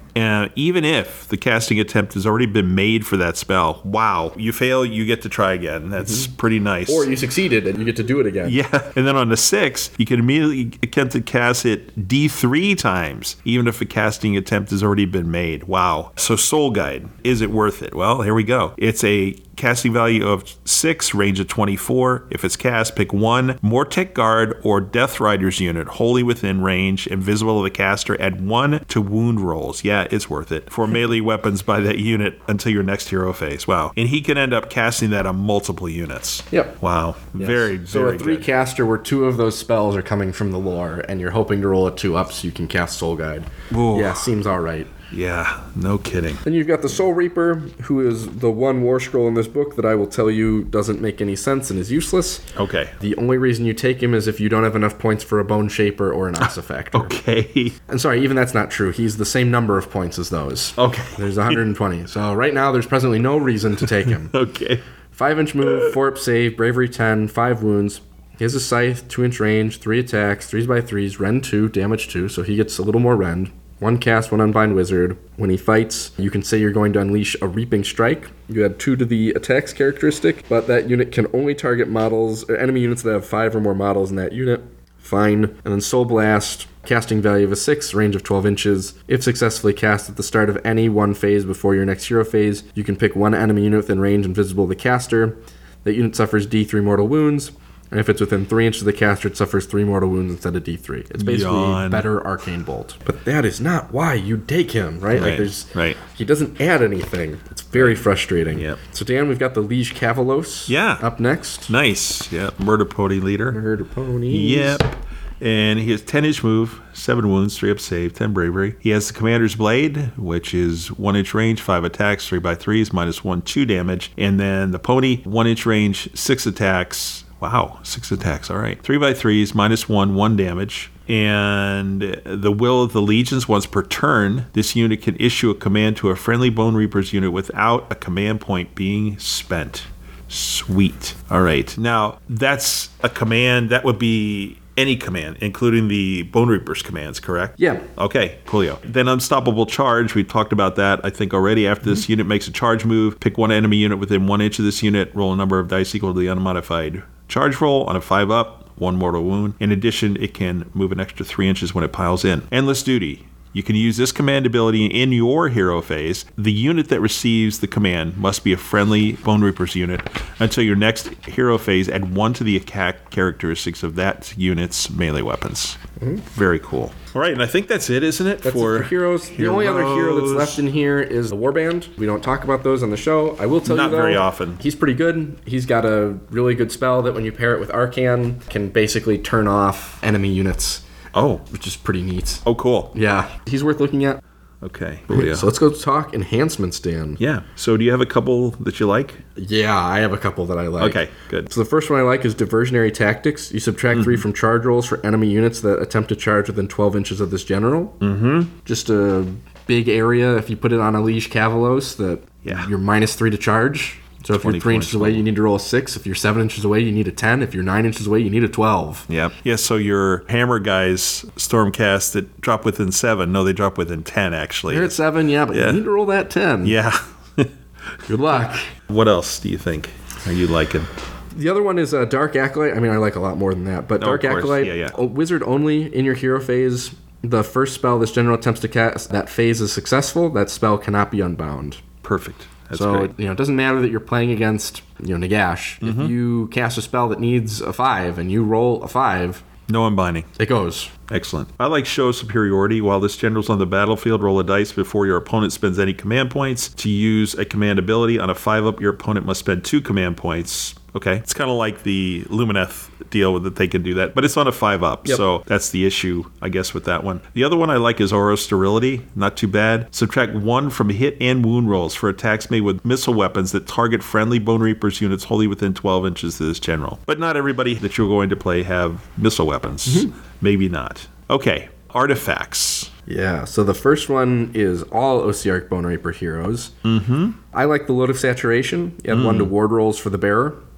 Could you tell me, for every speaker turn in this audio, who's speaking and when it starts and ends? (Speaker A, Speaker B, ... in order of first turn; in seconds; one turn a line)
Speaker A: 0.1-7.1
Speaker B: 6.0-6.3
Speaker B: 6.9-8.6
Speaker A: 8.4-38.5
Speaker B: 36.5-36.8
Speaker B: 37.4-44.9
Speaker A: 43.7-44.3
Speaker A: 45.1-46.4
Speaker B: 46.5-52.4
Speaker A: 52.6-53.0
Speaker B: 53.0-57.1
Speaker A: 56.9-57.8
Speaker B: 57.9-64.3
Speaker A: 60.8-61.6
Speaker A: 64.0-64.8
Speaker B: 65.1-111.7
Speaker A: 65.6-65.9
Speaker A: 101.2-102.1
Speaker A: 105.1-106.0
Speaker A: 108.5-108.8
Speaker A: 110.7-111.0
Speaker A: 111.7-113.6
Speaker B: 113.5-114.8
Speaker A: 114.3-175.8
Speaker B: 147.6-147.8
Speaker B: 176.0-176.2
Speaker A: 176.3-180.6
Speaker B: 178.4-190.8
Speaker A: 183.6-184.6
Speaker A: 191.1-191.4
Speaker B: 191.5-194.2
Speaker A: 192.4-192.9
Speaker A: 194.6-195.5
Speaker B: 195.1-197.2
Speaker A: 197.2-199.2
Speaker B: 199.4-208.0
Speaker A: 200.8-201.5
Speaker A: 203.9-204.2
Speaker A: 208.0-208.5
Speaker B: 208.6-219.1
Speaker A: 212.4-212.7
Speaker A: 214.3-215.3
Speaker A: 219.1-225.0
Speaker B: 224.7-226.8
Speaker A: 225.5-225.8
Speaker A: 226.6-227.5
Speaker B: 228.1-228.7
Speaker A: 228.9-230.9
Speaker B: 231.3-241.8
Speaker A: 234.0-234.9
Speaker A: 242.0-243.1
Speaker B: 242.7-249.4
Speaker A: 245.8-246.1
Speaker A: 249.7-250.3
Speaker B: 250.4-250.9
Speaker A: 251.1-282.9
Speaker B: 279.9-280.1
Speaker B: 283.1-286.7
Speaker A: 286.8-287.4
Speaker B: 287.5-290.6
Speaker A: 289.1-289.5